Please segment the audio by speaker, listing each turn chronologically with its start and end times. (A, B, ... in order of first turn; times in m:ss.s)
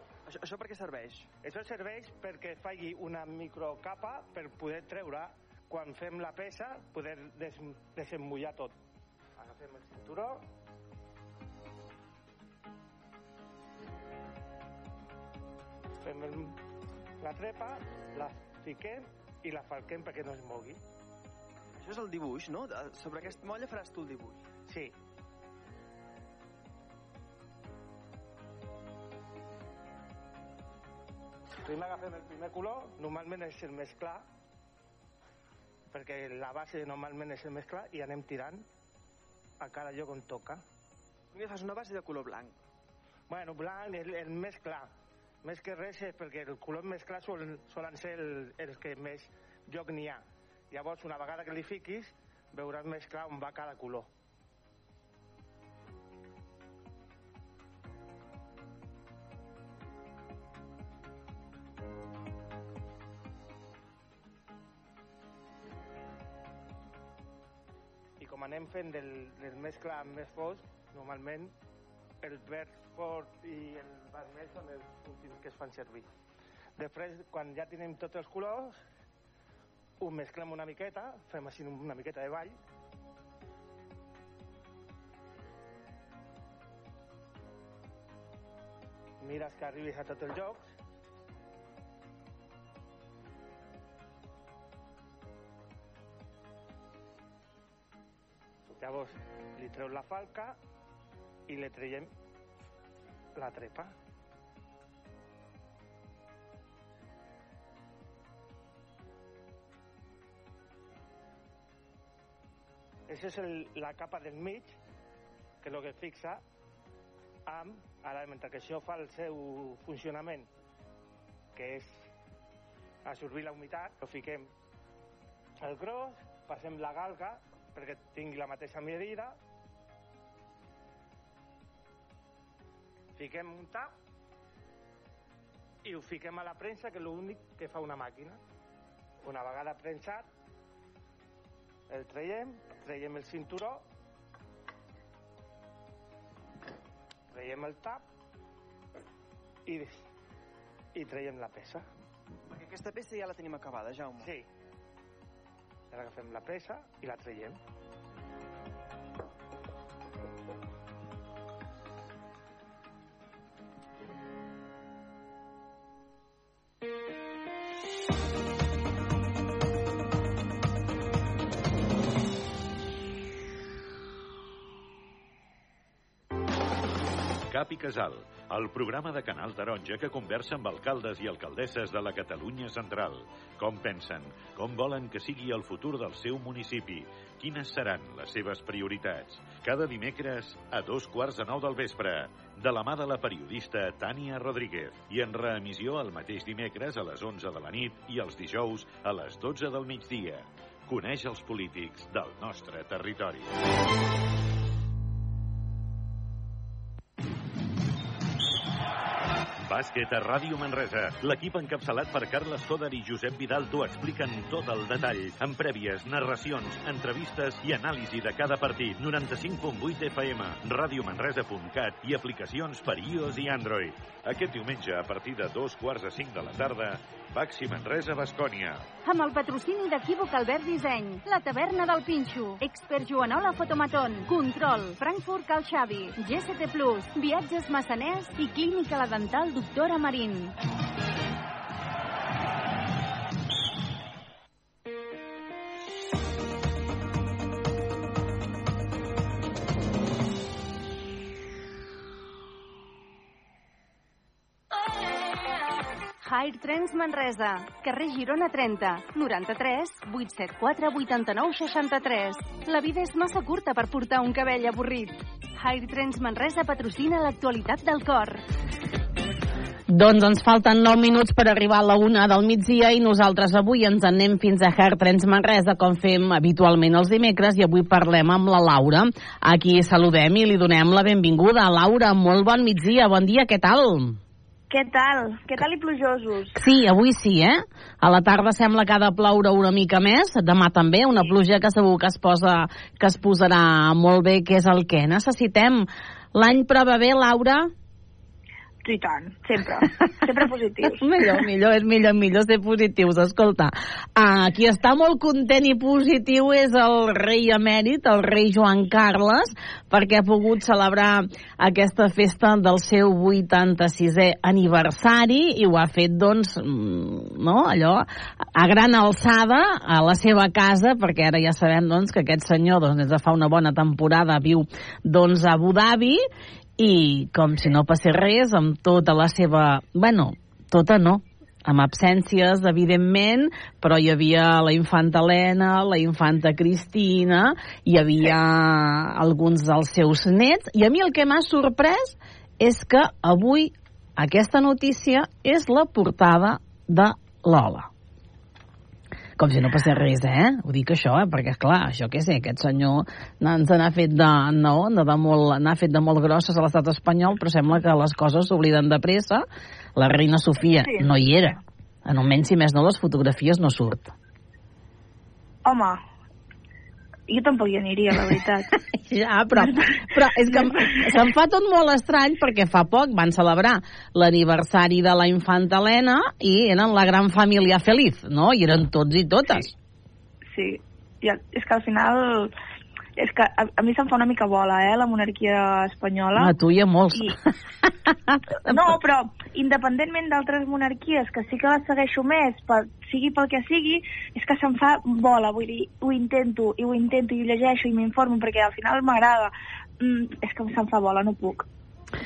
0:00.2-0:01.3 A
0:01.4-0:08.7 B
0:09.4-0:10.4 B
0:16.0-0:16.6 B
0:17.2-0:20.8 B
0:21.8-0:24.4 A
0:24.7-0:24.9 B
0:31.6-0:34.2 B
0:35.9-0:38.6 B
0:39.6-0:40.6 B
0:41.3-0:42.6 A
0:43.3-0:44.9 B
0:45.4-0:54.1 B
1:08.2-1:11.5 B
1:12.2-1:16.0 B
1:16.8-1:18.8 B
1:20.0-1:22.6 B
1:29.2-1:30.7 B
1:38.8-1:40.6 B
1:41.5-1:42.1 B
1:43.3-1:43.9 B
1:53.1-1:54.8 B
1:55.6-1:56.4 B
1:57.5-2:00.5 B
2:01.5-2:02.1 B
2:03.0-2:04.5 B
2:05.6-2:09.3 B
2:13.2-2:13.9 B
2:15.8-2:18.4 B
2:19.2-2:20.3 B
2:21.9-2:23.8 B
2:27.3-2:28.0 B
2:29.6-2:30.0 B
2:30.9-2:31.8 B
2:32.5-2:34.3 A
2:34.2-2:34.4 B
2:35.9-2:37.6 B
2:57.5-3:23.5 C
3:29.6-3:48.8 C
3:49.0-4:00.5 D
4:16.2-4:28.4 D
4:29.9-4:44.2 E
4:44.7-4:46.6 F
4:46.5-4:57.7 E
4:58.8-5:01.0 F
5:01.0-5:26.2 E
5:26.8-5:47.9 E
5:49.4-5:59.4 E
6:00.0-6:04.1 E
6:00.8-6:01.2 F
6:05.6-6:06.0 F
6:07.3-6:08.7 F
6:09.1-6:19.7 E
6:09.5-6:11.2 F
6:20.5-6:22.5 F
6:23.2-6:26.5 F
6:26.4-6:27.5 E
6:28.3-6:28.9 E
6:28.7-6:41.7 F